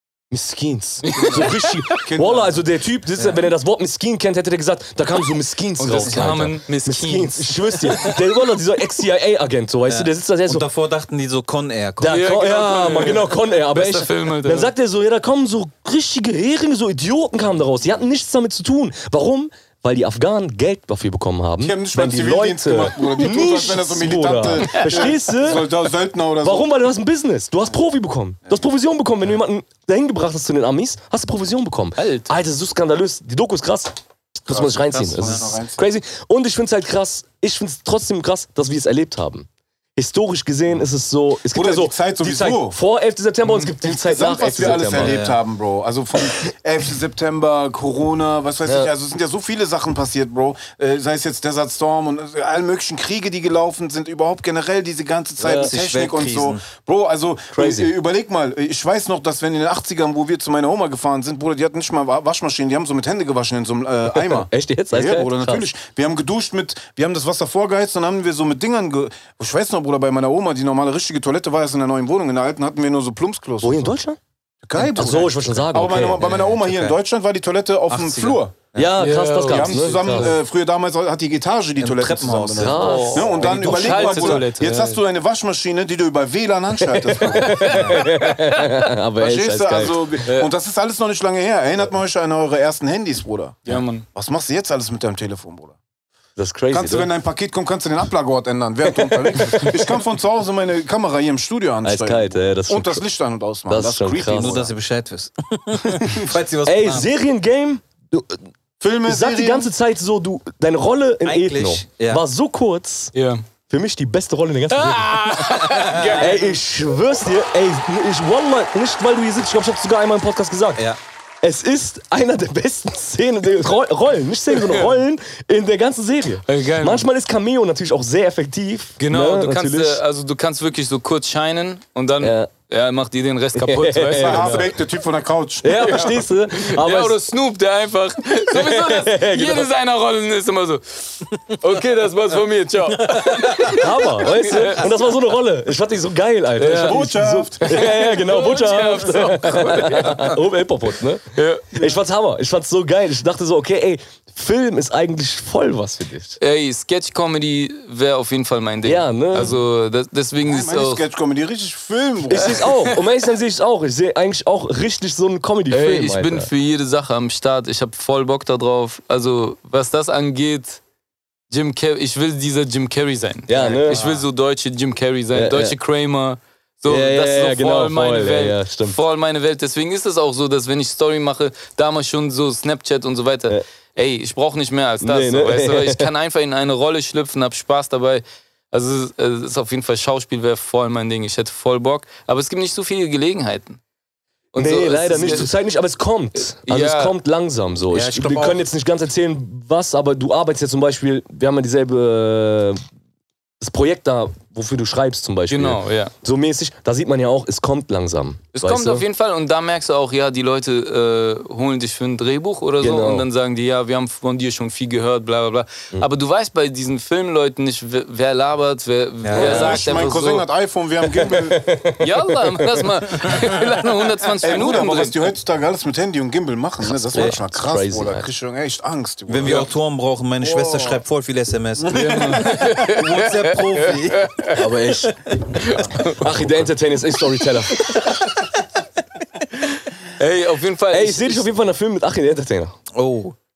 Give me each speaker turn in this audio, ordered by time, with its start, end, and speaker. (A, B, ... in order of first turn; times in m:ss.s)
0:00.3-0:10.6 A
0:01.0-0:01.6 B
0:02.0-0:02.6 C
0:03.2-0:03.5 D
0:05.8-0:07.8 B
0:06.0-0:06.4 D
0:09.9-0:12.2 D
0:12.0-0:25.8 A
0:12.0-0:14.7 B
0:21.6-0:26.7 C
0:26.4-0:45.2 A
0:32.0-0:32.3 B
0:34.5-0:35.8 C
0:34.9-0:35.5 D
0:41.5-0:42.8 C
0:43.8-1:13.9 C
0:44.6-0:45.4 D
0:48.6-0:48.9 A
0:55.4-0:55.7 A
0:55.4-0:56.6 D
0:57.5-0:57.9 A
1:04.1-1:05.7 A
1:13.6-1:14.2 A
1:14.6-1:18.6 C
1:14.8-1:16.2 A
1:16.2-1:17.0 D
1:17.9-1:18.9 D
1:18.7-1:20.4 A
1:19.0-1:20.3 B
1:19.5-1:27.7 C
1:21.8-1:23.8 D
1:22.6-1:24.5 A
1:22.8-1:25.0 B
1:26.8-1:30.2 A
1:27.2-1:28.9 B
1:27.7-1:28.0 D
1:29.2-1:35.7 C
1:30.2-1:30.5 B
1:33.7-1:34.0 B
1:36.4-1:37.1 A
1:36.7-1:44.7 C
1:38.9-1:39.9 A
1:41.8-1:43.0 A
1:43.7-1:44.6 A
1:44.3-1:47.1 D
1:45.8-1:46.3 C
1:46.6-1:48.4 A
1:48.8-1:49.7 C
1:49.0-1:53.1 A
1:51.2-1:52.2 D
1:53.1-1:53.4 B
1:53.7-1:55.3 A
1:54.7-1:56.5 B
1:55.5-1:56.2 D
1:56.1-2:00.9 A
2:01.4-2:10.0 A
2:04.5-2:04.9 B
2:06.5-2:07.0 B
2:09.0-2:14.7 B
2:12.2-2:12.5 A
2:13.6-2:14.7 A
2:14.1-2:16.1 C
2:15.6-2:17.2 A
2:15.7-2:24.9 B
2:18.5-2:19.7 A
2:23.1-2:23.7 D
2:23.7-2:36.4 A
2:26.6-2:27.1 B
2:26.8-2:27.8 C
2:27.6-2:30.4 B
2:31.3-2:31.9 B
2:36.4-2:41.0 B
2:38.8-2:39.6 A
2:40.4-2:42.7 C
2:42.2-2:46.5 A
2:42.4-2:43.0 B
2:45.7-2:50.8 B
2:51.5-3:13.8 B
2:53.5-2:54.0 A
2:53.6-2:54.2 D
2:55.3-2:55.8 A
2:56.9-2:59.0 A
3:05.0-3:06.1 A
3:14.5-3:15.5 B
3:14.6-3:22.8 A
3:16.6-3:17.1 B
3:17.9-3:18.6 D
3:23.6-3:29.0 A
3:25.5-3:26.1 B
3:28.6-3:40.4 B
3:32.8-3:33.3 A
3:39.2-3:39.8 D
3:39.3-3:40.0 A
3:39.3-3:41.7 C
3:41.0-3:42.9 A
3:42.0-3:45.3 B
3:44.4-3:49.7 C
3:47.1-3:48.3 A
3:49.3-3:54.4 D
3:50.4-3:51.0 C
3:51.8-3:52.6 C
3:51.9-3:54.7 B
3:54.5-3:55.4 A
3:55.4-3:56.6 B
3:56.0-3:58.0 A
3:57.7-3:58.2 B
4:00.2-4:01.5 B
4:00.9-4:02.7 A
4:02.9-4:03.3 D